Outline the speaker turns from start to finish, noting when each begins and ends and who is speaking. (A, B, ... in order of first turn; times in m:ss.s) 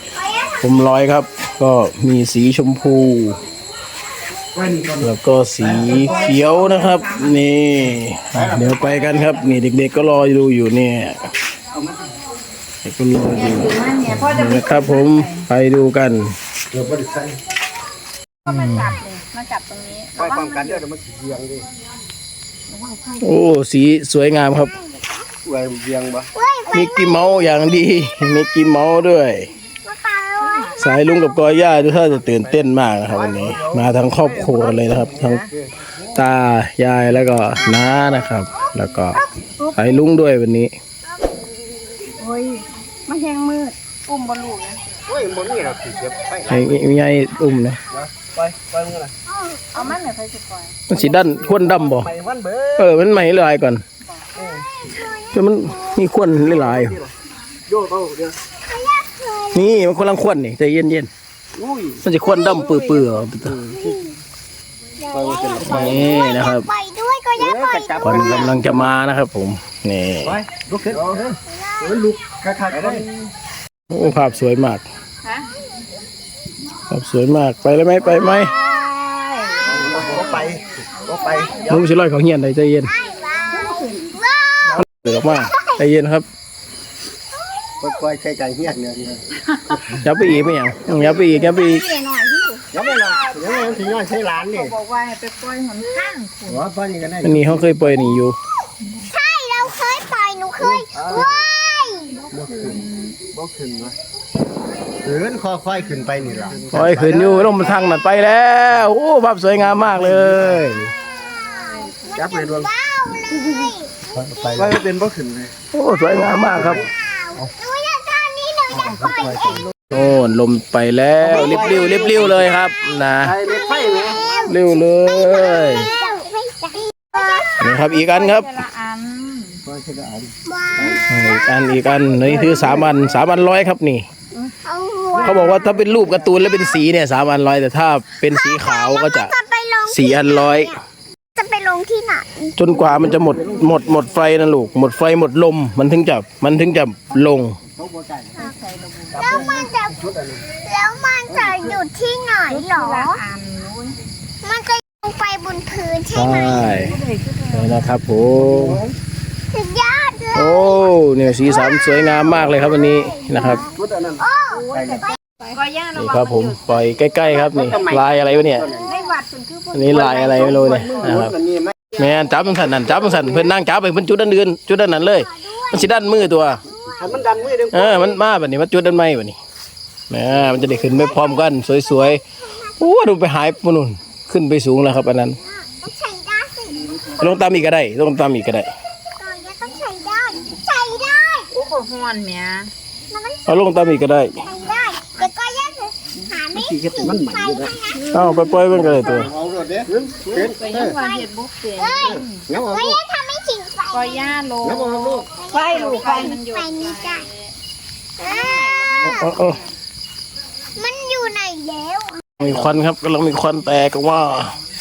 0:00.6-0:03.4 A
0:04.6-0:05.1 B
0:05.0-0:11.3 A
0:12.8-0:16.4 A
0:13.3-0:15.4 C
0:16.7-0:17.4 B
0:18.4-0:20.8 C
0:18.5-0:18.8 A
0:20.2-0:21.7 B
0:22.8-0:23.2 C
0:23.2-0:24.7 A
0:25.4-0:26.3 B
0:26.4-0:27.4 D
0:26.7-0:29.5 A
0:29.8-0:30.8 D
0:30.4-0:30.7 C
0:30.8-0:35.4 A
0:33.0-0:35.7 B
0:36.2-0:39.2 A
0:39.2-0:39.9 C
0:39.8-0:40.7 A
0:42.2-0:44.8 C
0:45.1-0:46.8 B
0:46.5-0:47.8 A
0:47.9-0:49.2 B
0:49.7-0:50.8 C
0:50.9-0:52.1 A
0:50.9-0:52.9 B
0:52.8-0:53.8 A
0:54.4-0:54.6 B
0:55.3-0:57.0 A
0:56.4-0:57.1 B
0:57.7-0:58.4 B
0:58.6-0:59.7 D
0:59.5-1:01.1 A
1:01.6-1:02.0 B
1:02.0-1:03.6 A
1:02.4-1:02.8 D
1:03.4-1:04.0 B
1:03.7-1:04.0 D
1:05.0-1:08.6 D
1:05.1-1:06.3 B
1:05.6-1:06.7 A
1:07.4-1:08.9 B
1:08.0-1:10.4 A
1:10.2-1:13.1 B
1:12.8-1:13.1 C
1:13.9-1:14.9 A
1:16.9-1:18.5 A
1:18.6-1:21.5 C
1:19.7-1:21.9 B
1:21.7-1:22.9 A
1:22.9-1:24.9 D
1:23.5-1:23.9 C
1:24.9-1:26.3 A
1:25.4-1:25.8 D
1:27.8-1:30.1 B
1:30.0-1:31.8 A
1:30.9-1:36.6 C
1:32.7-1:34.8 B
1:36.5-1:37.9 B
1:37.2-1:38.4 A
1:39.1-1:42.3 D
1:40.6-1:41.4 B
1:42.3-1:44.0 B
1:42.6-1:43.2 C
1:45.0-1:47.8 B
1:46.2-1:46.6 C
1:46.7-1:50.9 A
1:50.0-1:50.6 B
1:51.4-1:54.8 D
1:52.1-1:52.7 B
1:54.2-1:55.5 B
1:55.7-1:56.9 A
1:56.6-1:56.9 B
1:56.9-1:59.5 D
1:58.8-1:59.7 B
1:59.9-2:03.4 A
2:01.2-2:02.5 B
2:01.3-2:02.7 D
2:03.2-2:04.3 B
2:03.5-2:07.6 D
2:04.5-2:05.9 A
2:07.6-2:08.6 A
2:07.8-2:09.6 C
2:09.6-2:11.0 B
2:10.5-2:12.3 D
2:11.1-2:14.1 A
2:12.2-2:12.9 B
2:14.6-2:16.4 D
2:15.1-2:16.3 B
2:15.2-2:19.3 A
2:18.2-2:20.8 D
2:19.9-2:20.7 A
2:21.4-2:23.1 D
2:22.6-2:27.6 A
2:22.8-2:24.3 B
2:27.2-2:28.5 B
2:28.4-2:29.5 C
2:29.1-2:30.5 B
2:29.2-2:30.0 D
2:30.6-2:33.2 D
2:31.3-2:31.6 B
2:32.5-2:34.0 C
2:34.4-2:36.7 D
2:36.1-2:37.0 A
2:36.5-2:37.8 C
2:37.5-2:38.8 A
2:38.4-2:38.9 B
2:39.5-2:45.4 D
2:40.4-2:43.6 A
2:43.7-2:45.1 B
2:44.6-2:46.8 C
2:46.0-2:48.7 A
2:47.3-2:48.9 B
2:48.8-2:50.9 C
2:49.7-2:51.3 A
2:50.0-2:51.9 B
2:51.9-2:56.6 A
2:55.4-2:57.1 D
2:56.9-2:58.2 B
2:57.7-2:59.4 A
3:00.1-3:02.2 A
3:00.6-3:01.7 D
3:02.8-3:05.4 A
3:05.7-3:06.8 D
3:07.2-3:08.7 A
3:09.2-3:11.5 D
3:11.5-3:12.7 C
3:13.1-3:18.3 D
3:13.5-3:14.4 A
3:16.5-3:17.8 B
3:18.1-3:19.3 A
3:18.7-3:21.0 B
3:20.3-3:22.5 C
3:21.0-3:21.3 D
3:21.8-3:24.4 D
3:22.0-3:23.0 B
3:23.9-3:27.4 C
3:24.6-3:25.3 B
3:25.3-3:27.3 D
3:28.2-3:29.5 D
3:28.3-3:29.5 C
3:29.0-3:29.6 A
3:30.8-3:32.6 D
3:32.4-3:34.5 A